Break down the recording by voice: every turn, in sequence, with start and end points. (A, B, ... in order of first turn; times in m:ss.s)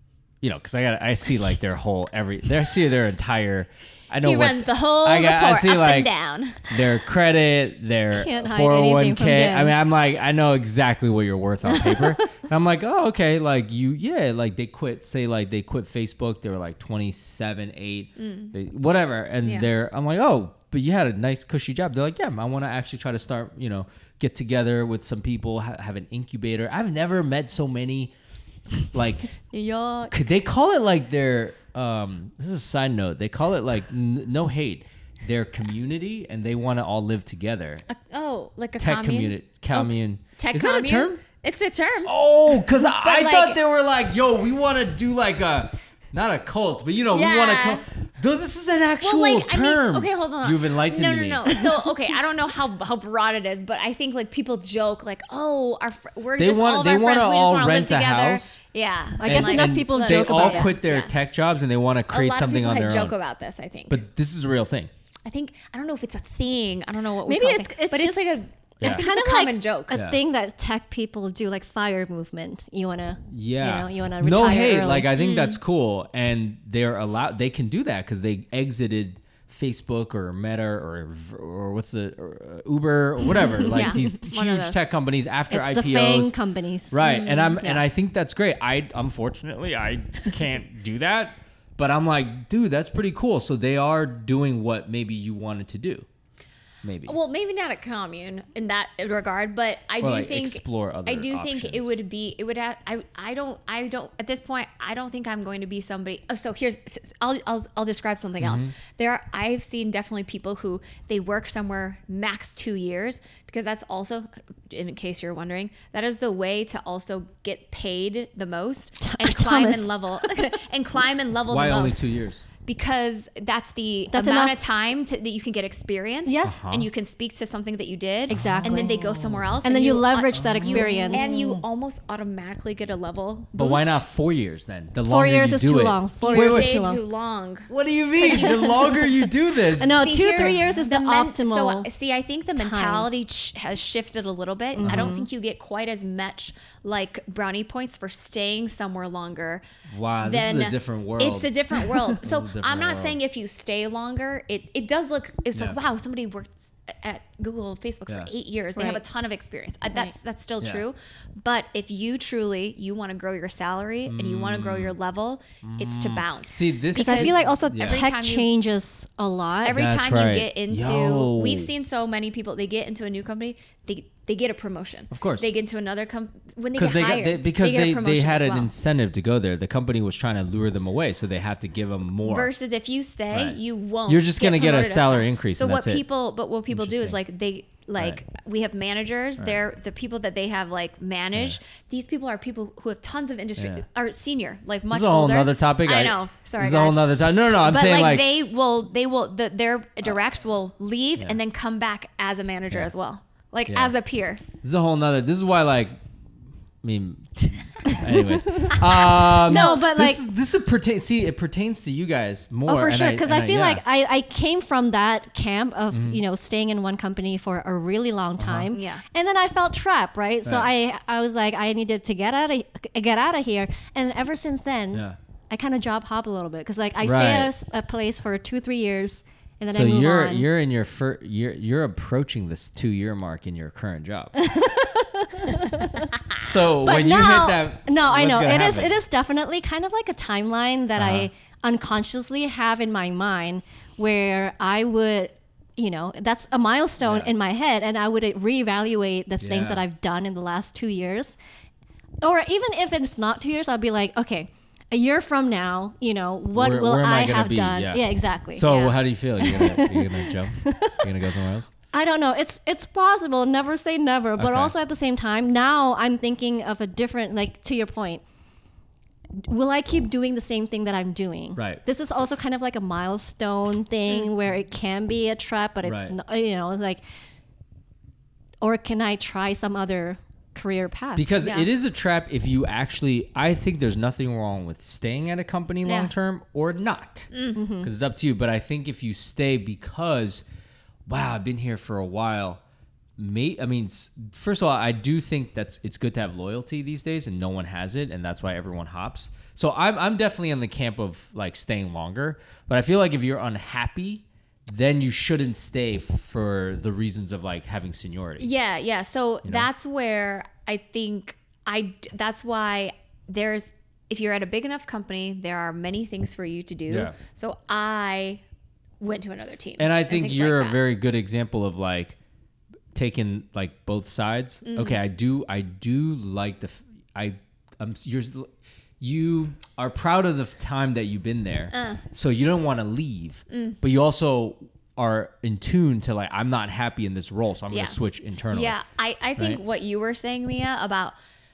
0:00.4-0:06.1 A
0:04.2-0:06.7 B
0:06.6-0:28.1 A
0:08.1-0:09.7 C
0:11.7-0:12.4 C
0:18.2-0:18.5 B
0:19.4-0:19.7 B
0:28.9-0:29.3 A
0:29.5-0:30.1 B
0:30.1-0:37.8 A
0:37.9-0:43.6 B
0:38.8-0:41.2 A
0:42.0-0:51.6 A
0:47.1-0:47.8 B
0:49.0-1:01.1 B
0:56.4-0:58.6 A
0:59.2-1:00.7 C
0:59.2-1:03.1 A
1:02.1-1:04.0 B
1:03.9-1:04.9 A
1:05.2-1:10.0 B
1:07.3-1:08.3 C
1:08.8-1:15.1 C
1:09.9-1:10.2 A
1:13.3-1:26.3 A
1:15.2-1:15.6 B
1:23.6-1:24.8 B
1:25.5-1:27.0 C
1:26.9-1:36.1 A
1:27.0-1:27.6 B
1:36.8-1:37.1 A
1:37.0-2:02.1 B
1:40.0-1:42.0 A
1:48.4-1:48.7 A
1:59.0-2:00.5 C
2:01.5-2:02.4 A
2:02.6-2:14.0 B
2:04.1-2:04.6 C
2:06.2-2:06.5 C
2:06.4-2:06.9 A
2:08.3-2:09.4 A
2:08.3-2:08.9 C
2:09.6-2:11.4 C
2:10.3-2:11.6 A
2:13.6-2:16.8 A
2:15.1-2:17.0 C
2:16.2-2:18.8 B
2:17.7-2:20.6 A
2:18.2-2:18.8 C
2:19.8-2:21.9 C
2:20.0-2:29.6 B
2:22.6-2:23.1 C
2:24.8-2:25.2 A
2:24.8-2:25.3 C
2:29.9-2:31.5 A
2:30.2-2:48.5 B
2:32.2-2:33.2 A
2:35.5-2:35.8 A
2:38.7-2:39.0 C
2:44.0-2:44.9 A
2:45.6-2:48.0 A
2:46.9-2:49.8 C
2:49.6-2:58.7 B
2:49.7-2:51.7 A
2:55.1-2:55.5 A
2:56.8-3:02.5 A
3:02.2-3:24.4 B
3:03.3-3:06.0 A
3:06.7-3:07.2 A
3:13.6-3:13.8 A
3:14.9-3:18.2 A
3:23.7-3:23.9 A
3:24.6-3:26.0 A
3:26.8-3:33.8 A
3:28.5-3:30.2 C
3:29.4-3:29.8 B
3:32.6-3:50.5 C
3:35.9-3:36.2 A
3:38.4-3:38.7 A
3:38.7-3:39.0 B
3:40.4-3:40.7 A
3:47.0-3:47.5 A
3:49.7-3:54.3 A
3:54.4-3:56.1 C
3:56.4-3:58.9 A
3:56.8-4:11.4 C
4:01.0-4:01.3 A
4:07.0-4:07.3 A
4:09.4-4:09.8 A
4:12.2-4:21.0 C
4:16.5-4:21.7 A
4:21.9-4:28.2 C
4:24.4-4:24.7 A
4:29.5-4:37.0 C
4:31.6-4:31.8 A
4:35.8-4:36.1 A
4:38.6-4:41.3 C
4:41.2-4:50.4 A
4:41.4-4:41.7 B
4:45.8-4:46.1 B
4:47.3-4:47.6 B
4:47.5-4:47.9 C
4:51.0-4:52.6 A
4:53.2-5:08.5 A
5:08.4-5:18.4 B
5:16.9-5:17.1 A
5:19.0-5:20.8 B
5:19.8-5:22.2 A
5:22.9-5:38.8 A
5:24.6-5:25.0 B
5:31.7-5:32.0 B
5:33.5-5:33.8 B
5:37.7-5:38.0 B
5:38.5-5:41.1 B